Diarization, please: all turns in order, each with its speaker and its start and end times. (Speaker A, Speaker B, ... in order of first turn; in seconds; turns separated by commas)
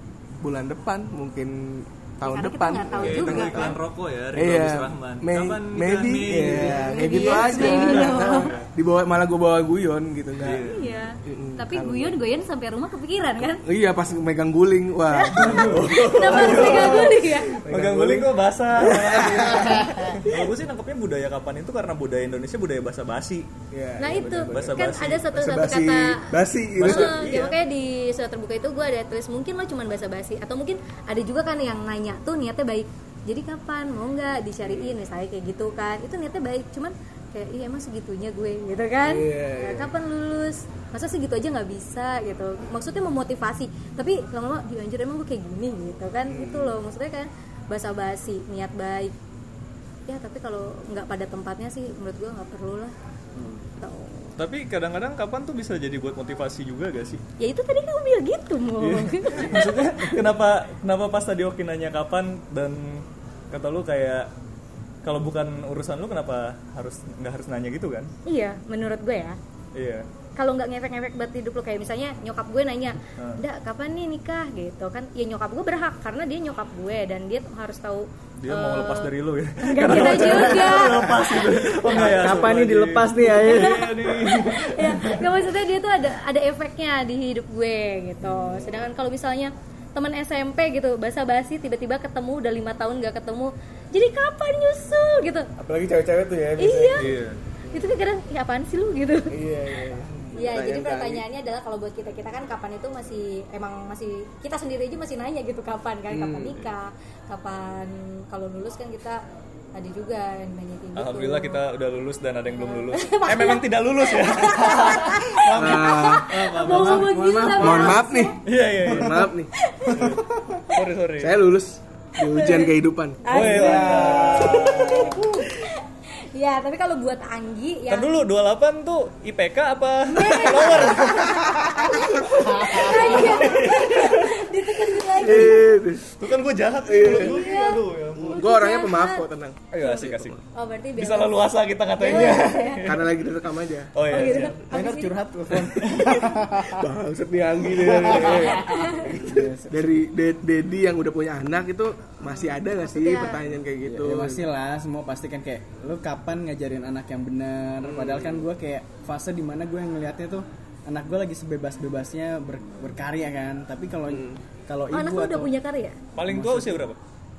Speaker A: 0.4-3.8, Speaker B: 2.2-3.8, Speaker C: 2.9-8.7, Speaker A: 4.3-10.7, Speaker D: 6.4-6.9, Speaker B: 6.6-8.5, Speaker C: 10.4-10.8, Speaker B: 10.6-13.6, Speaker A: 11.2-12.2, Speaker A: 13.6-20.5, Speaker B: 15.1-17.6, Speaker D: 15.4-15.9, Speaker C: 15.5-17.2, Speaker C: 17.7-23.5, Speaker A: 23.7-27.4, Speaker B: 24.0-26.3, Speaker C: 24.2-25.3, Speaker C: 26.8-27.6, Speaker B: 26.8-49.1, Speaker A: 34.6-34.9, Speaker A: 39.0-39.9, Speaker A: 46.3-46.8, Speaker B: 50.1-52.9, Speaker D: 53.4-53.7, Speaker B: 53.8-54.4, Speaker C: 54.4-57.2, Speaker B: 57.4-59.6, Speaker C: 58.8-64.3, Speaker C: 65.0-68.1, Speaker B: 68.3-69.4, Speaker C: 69.7-70.0, Speaker B: 70.4-81.5, Speaker C: 78.4-85.2, Speaker A: 80.0-80.6, Speaker D: 81.9-84.0, Speaker B: 83.4-95.5, Speaker A: 88.3-88.8, Speaker A: 95.6-97.9, Speaker B: 96.6-97.2, Speaker C: 97.0-97.4, Speaker B: 97.7-99.3, Speaker A: 99.3-101.2, Speaker B: 100.3-109.2, Speaker A: 106.1-106.7, Speaker B: 109.8-111.6, Speaker C: 111.0-118.0, Speaker B: 112.5-118.4, Speaker A: 115.6-119.5, Speaker D: 116.8-117.9, Speaker C: 118.5-119.3, Speaker B: 119.6-120.1, Speaker C: 119.9-121.4, Speaker D: 119.9-120.7, Speaker A: 121.2-125.2, Speaker B: 122.2-125.8, Speaker C: 123.3-125.3, Speaker D: 123.6-124.4, Speaker B: 126.3-128.2, Speaker C: 127.9-134.3, Speaker B: 130.1-135.8, Speaker A: 130.5-130.8, Speaker A: 133.2-133.7, Speaker A: 135.1-136.1, Speaker C: 135.3-138.4, Speaker A: 136.8-137.4, Speaker B: 137.0-139.3, Speaker A: 138.2-140.4, Speaker C: 139.7-140.4, Speaker B: 139.8-141.4, Speaker C: 141.0-143.3, Speaker B: 142.0-142.9, Speaker A: 142.1-144.5, Speaker C: 143.9-144.6, Speaker B: 144.1-145.1, Speaker D: 144.7-146.8, Speaker A: 145.6-154.4, Speaker C: 145.8-146.2, Speaker D: 147.7-149.9, Speaker B: 148.5-149.1, Speaker B: 152.2-153.4, Speaker D: 153.8-165.5, Speaker A: 157.8-158.5, Speaker A: 164.1-164.4, Speaker B: 164.9-166.0, Speaker C: 166.2-167.0, Speaker D: 166.3-166.9